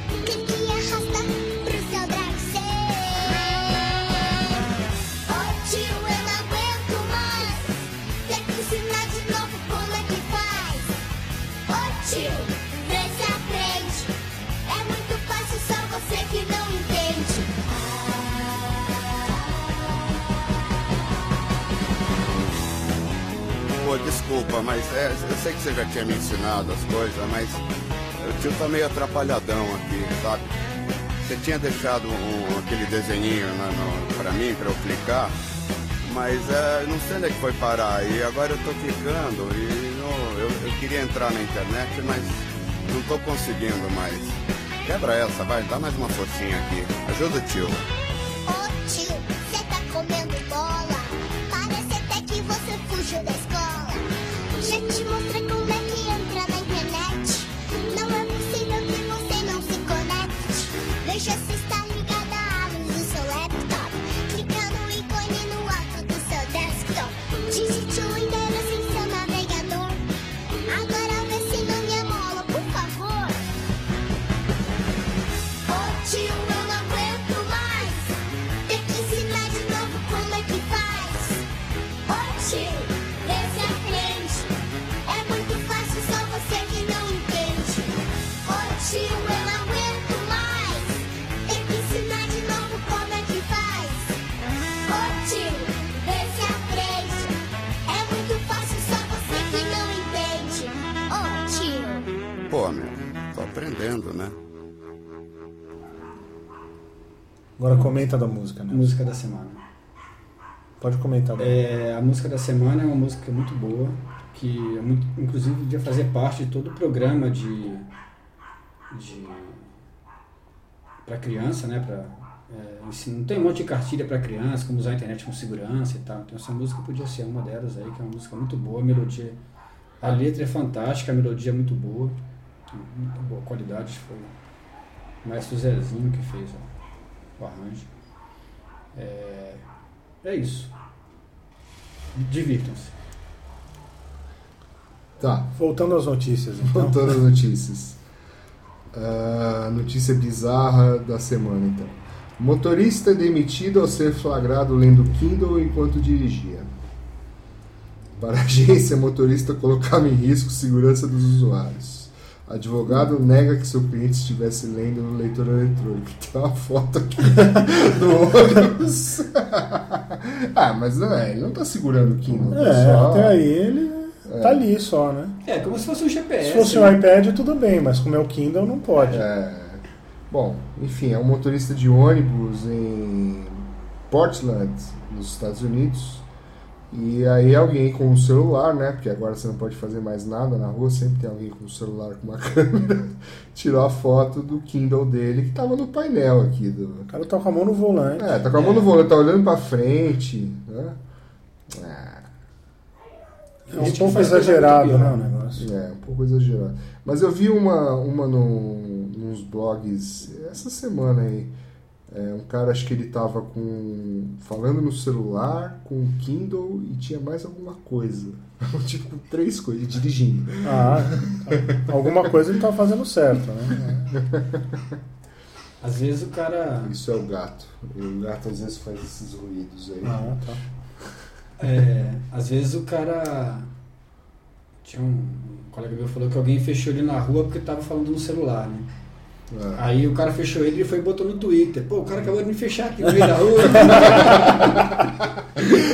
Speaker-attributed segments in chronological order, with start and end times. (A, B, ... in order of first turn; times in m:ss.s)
0:00.2-0:04.6 A
0:05.3-0:10.9 A
0:11.7-0:14.1 A
0:14.7-0:17.7 A
0:23.8-0:27.6 B
0:28.2-0:30.5 B
0:31.2-0:35.3 B
0:36.0-0:47.8 B
0:48.5-0:54.0 A
0:54.6-1:10.0 A
1:10.7-1:13.4 A
1:15.7-1:18.2 A
1:18.7-1:21.5 A
1:22.1-1:24.5 A
1:25.1-1:34.2 A
1:34.9-1:37.4 A
1:37.9-1:42.1 A
1:42.5-1:44.4 B
1:47.6-1:48.9 C
1:47.7-1:48.0 D
1:48.7-1:49.6 D
1:50.8-1:51.6 C
1:51.4-1:57.9 D
1:58.9-1:59.7 D
2:01.0-2:09.4 D
2:10.0-2:12.2 D
2:12.7-2:14.3 D
2:15.2-2:16.7 D
2:17.4-2:17.9 D
2:18.9-2:19.6 D
2:20.2-2:20.7 D
2:22.1-2:22.9 D
2:25.2-2:25.6 E
2:25.6-2:27.2 C
2:26.6-2:28.0 E
2:28.9-2:36.7 E
2:38.2-2:53.4 E
2:52.5-2:55.4 C
2:54.3-2:54.6 E
2:55.4-2:57.0 D
2:56.4-2:59.3 C
2:59.1-3:06.3 E
3:06.9-3:17.1 E
3:17.1-3:18.4 C
3:18.2-3:21.0 E
3:18.5-3:18.9 D
3:21.7-3:22.3 E
3:23.7-3:25.7 C
3:23.7-3:25.3 D
3:25.6-3:31.5 E
3:32.1-3:42.4 E
3:40.6-3:44.2 C
3:43.9-3:44.9 E
3:45.8-3:47.0 D
3:46.8-3:50.4 E
3:50.0-3:50.6 C
3:51.6-3:53.7 D
3:54.8-3:58.9 D
3:59.5-3:59.9 E
3:59.8-4:04.9 D
4:03.8-4:04.6 C